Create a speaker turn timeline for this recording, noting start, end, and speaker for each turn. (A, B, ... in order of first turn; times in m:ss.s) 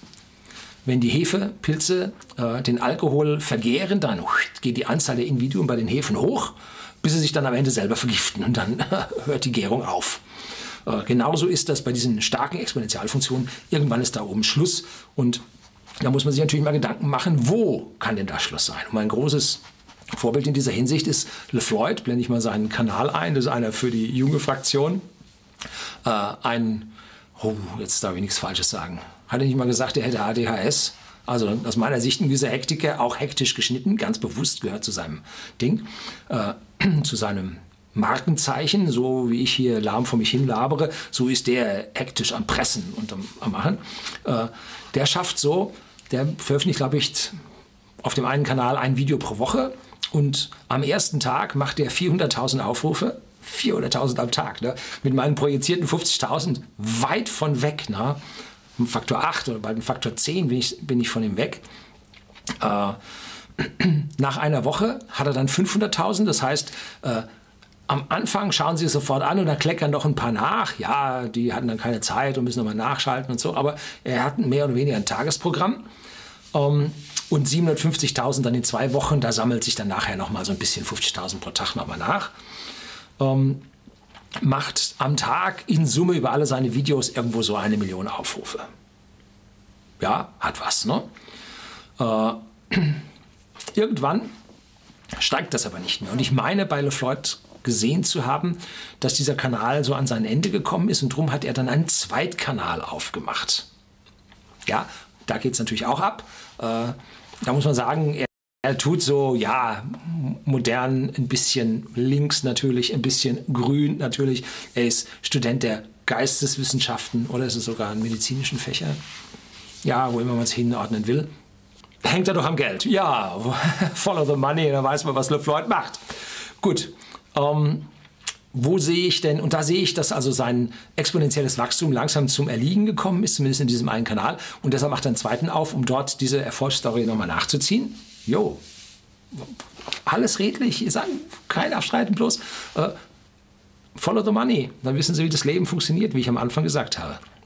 0:00.8-0:10.2 A
0:10.8-0:15.4 A
0:16.0-0:19.6 A
0:20.1-0:25.0 A
0:26.0-0:47.3 A
0:48.0-0:58.2 A
0:58.8-1:01.6 A
1:02.6-1:03.0 A
1:03.6-1:07.3 A
1:07.9-1:15.9 A
1:16.5-1:22.3 A
1:23.2-1:23.6 A
1:24.4-1:28.7 A
1:30.0-1:31.1 A
1:32.0-1:33.0 A
1:33.7-1:34.3 A
1:35.2-1:43.7 A
1:44.6-1:59.0 A
1:59.8-2:01.3 A
2:02.0-2:06.0 A
2:06.6-2:07.9 A
2:08.5-2:18.6 A
2:20.0-2:23.0 A
2:24.0-2:27.2 A